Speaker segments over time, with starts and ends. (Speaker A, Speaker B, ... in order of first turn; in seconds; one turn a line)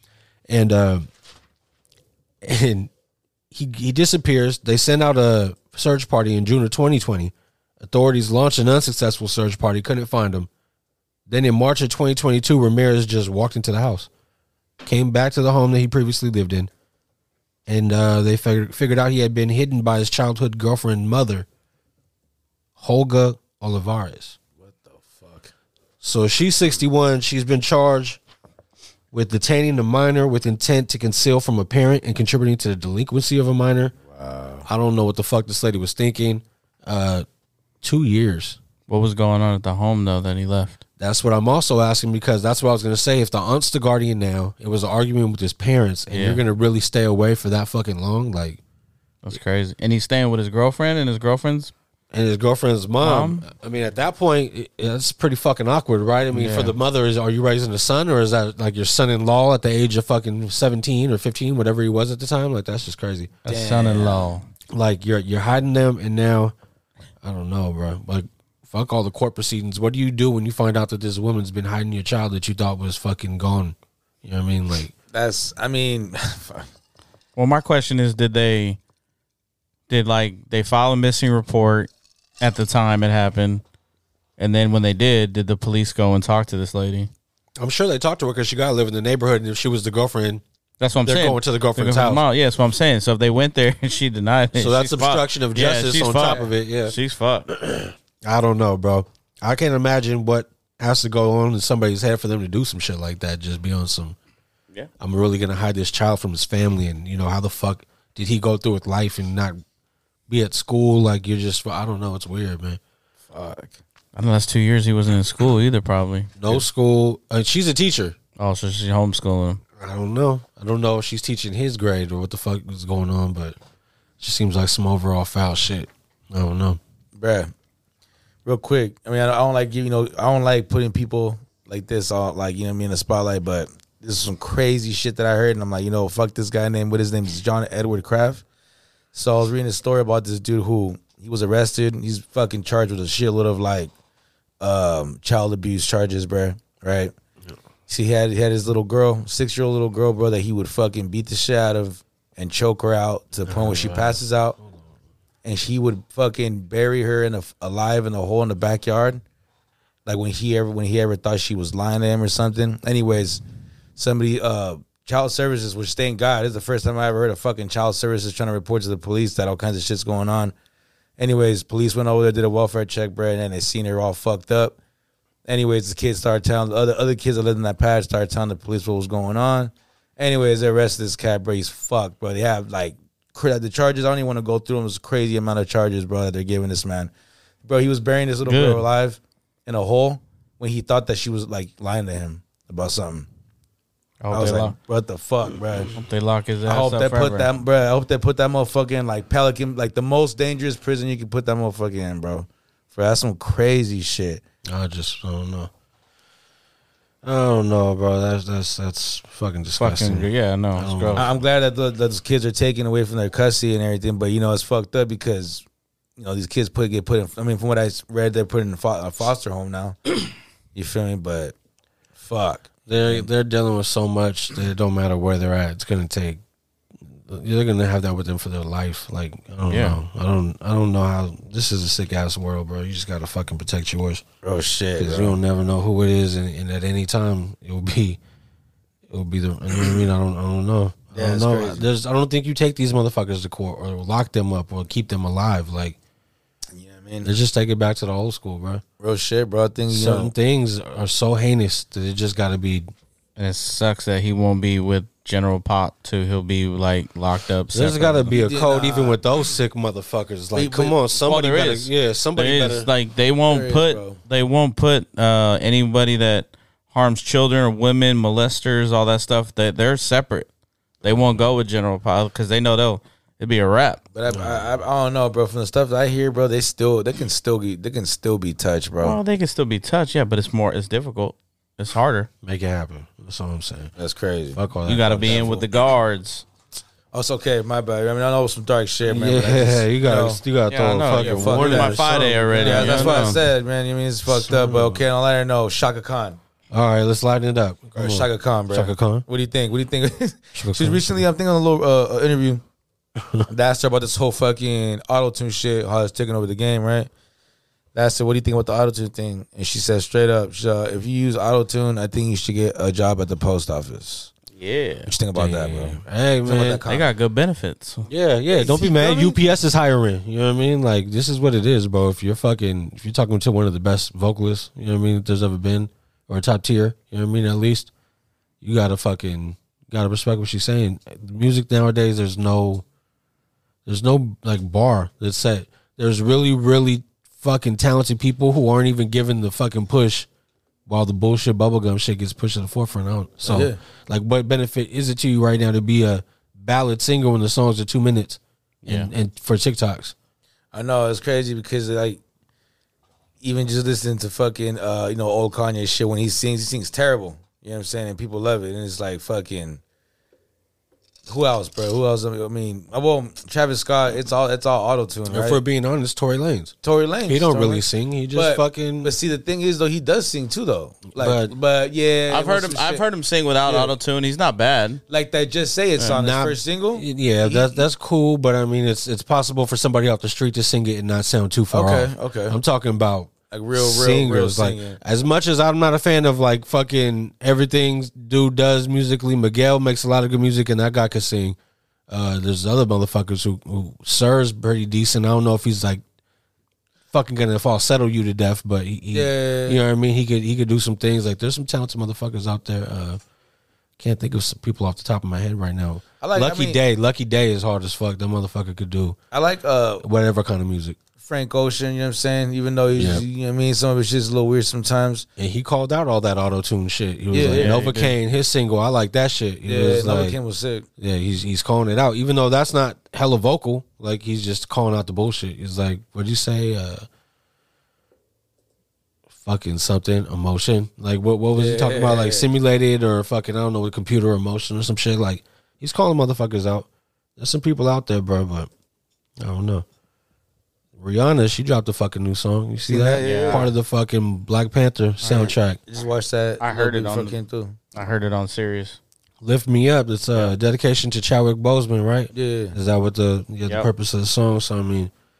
Speaker A: 0.5-1.1
Speaker A: 2.4-2.9
Speaker A: 3.5-10.5
Speaker A: 11.3-14.1
Speaker A: 14.8-16.7
Speaker A: 17.7-21.4
Speaker A: 22.8-24.4
Speaker B: 24.6-25.5
Speaker A: 26.0-28.2
Speaker A: 29.1-33.9
Speaker B: 34.0-34.6
Speaker A: 34.6-37.2
Speaker A: 37.8-38.6
Speaker C: 38.9-40.8
Speaker A: 41.0-48.6
Speaker C: 46.1-46.4
Speaker C: 49.2-51.7
Speaker A: 52.1-63.4
Speaker C: 53.0-53.5
Speaker C: 56.3-56.8
Speaker C: 63.4-64.4
Speaker B: 63.5-64.3
Speaker A: 64.7-66.5
Speaker A: 67.2-74.9
Speaker B: 75.1-76.7
Speaker C: 77.3-78.8
Speaker C: 79.9-83.6
Speaker C: 84.4-87.1
Speaker A: 87.6-90.4
Speaker C: 90.8-97.5
Speaker A: 91.0-92.2
Speaker A: 94.5-97.0
Speaker A: 97.5-104.2
Speaker A: 105.0-109.6
Speaker A: 110.3-112.8
Speaker B: 113.3-113.8
Speaker C: 114.2-116.6
Speaker A: 116.4-118.2
Speaker C: 118.3-119.6
Speaker A: 119.8-123.6
Speaker A: 124.2-126.8
Speaker B: 127.2-127.5
Speaker B: 128.4-138.4
Speaker B: 139.1-143.9
Speaker B: 144.6-147.1
Speaker B: 147.9-154.6
Speaker A: 153.4-154.8
Speaker B: 155.4-159.2
Speaker B: 160.1-163.4
Speaker B: 163.9-170.5
Speaker B: 171.2-174.8
Speaker B: 175.5-187.1
Speaker B: 187.6-193.3
Speaker C: 188.4-188.8
Speaker C: 194.2-194.8
Speaker B: 194.3-195.9
Speaker C: 195.9-197.5
Speaker B: 196.6-204.4
Speaker A: 204.7-205.7
Speaker A: 207.2-211.3
Speaker C: 209.8-211.3
Speaker B: 211.1-215.6
Speaker B: 216.2-220.2
Speaker B: 220.7-221.5
Speaker B: 222.2-223.3
Speaker A: 222.9-226.4
Speaker A: 227.1-234.2
Speaker C: 229.7-230.0
Speaker B: 234.4-235.3
Speaker A: 235.0-238.2
Speaker A: 239.1-246.0
Speaker B: 241.1-241.8
Speaker B: 246.7-247.3
Speaker A: 247.2-248.8
Speaker B: 249.0-250.3
Speaker A: 249.9-252.9
Speaker C: 253.4-258.4
Speaker A: 257.7-262.9
Speaker B: 258.3-259.2
Speaker B: 260.5-261.1
Speaker C: 261.2-270.5
Speaker B: 263.4-264.2
Speaker C: 271.0-274.0
Speaker B: 274.1-279.2
Speaker A: 274.3-274.6
Speaker C: 279.0-282.3
Speaker A: 282.4-283.9
Speaker B: 284.0-284.6
Speaker A: 284.5-285.6
Speaker C: 284.8-286.4
Speaker B: 285.1-285.6
Speaker B: 287.1-290.4
Speaker A: 289.0-293.4
Speaker C: 290.7-293.4
Speaker B: 291.1-296.4
Speaker A: 294.3-295.0
Speaker A: 296.7-299.2
Speaker B: 297.9-302.6
Speaker A: 300.6-301.2
Speaker A: 303.2-303.4
Speaker B: 303.5-307.1
Speaker B: 307.9-314.3
Speaker C: 314.5-315.1
Speaker B: 315.1-317.1
Speaker A: 315.3-316.8
Speaker C: 316.9-318.1
Speaker A: 318.1-327.9
Speaker B: 318.6-319.3
Speaker A: 328.6-332.8
Speaker A: 333.9-340.3
Speaker A: 340.9-350.1
Speaker B: 343.4-343.8
Speaker C: 348.8-349.1
Speaker B: 350.7-352.2
Speaker B: 353.4-359.8
Speaker B: 361.3-365.6
Speaker A: 365.3-366.7
Speaker B: 366.8-373.0
Speaker A: 367.2-369.1
Speaker A: 371.1-371.5
Speaker C: 372.3-375.0
Speaker B: 373.6-373.9
Speaker B: 375.1-377.8
Speaker A: 376.1-391.6
Speaker B: 381.7-382.6
Speaker B: 383.5-385.0
Speaker A: 392.1-396.0
Speaker A: 397.1-403.2
Speaker B: 399.1-399.8
Speaker A: 404.0-409.2
Speaker B: 406.2-406.8
Speaker B: 409.3-410.0
Speaker A: 410.0-411.0
Speaker B: 411.2-415.3
Speaker A: 412.9-413.2
Speaker A: 415.4-420.4
Speaker B: 417.3-417.9
Speaker C: 417.4-418.1
Speaker B: 419.6-420.9
Speaker A: 421.0-427.1
Speaker A: 429.3-438.7
Speaker B: 431.6-432.4
Speaker A: 439.4-439.8
Speaker A: 441.0-445.8
Speaker B: 442.8-443.7
Speaker C: 443.2-443.6
Speaker B: 445.2-447.8
Speaker C: 446.6-447.4
Speaker C: 447.9-449.0
Speaker A: 449.4-455.1
Speaker B: 452.3-452.8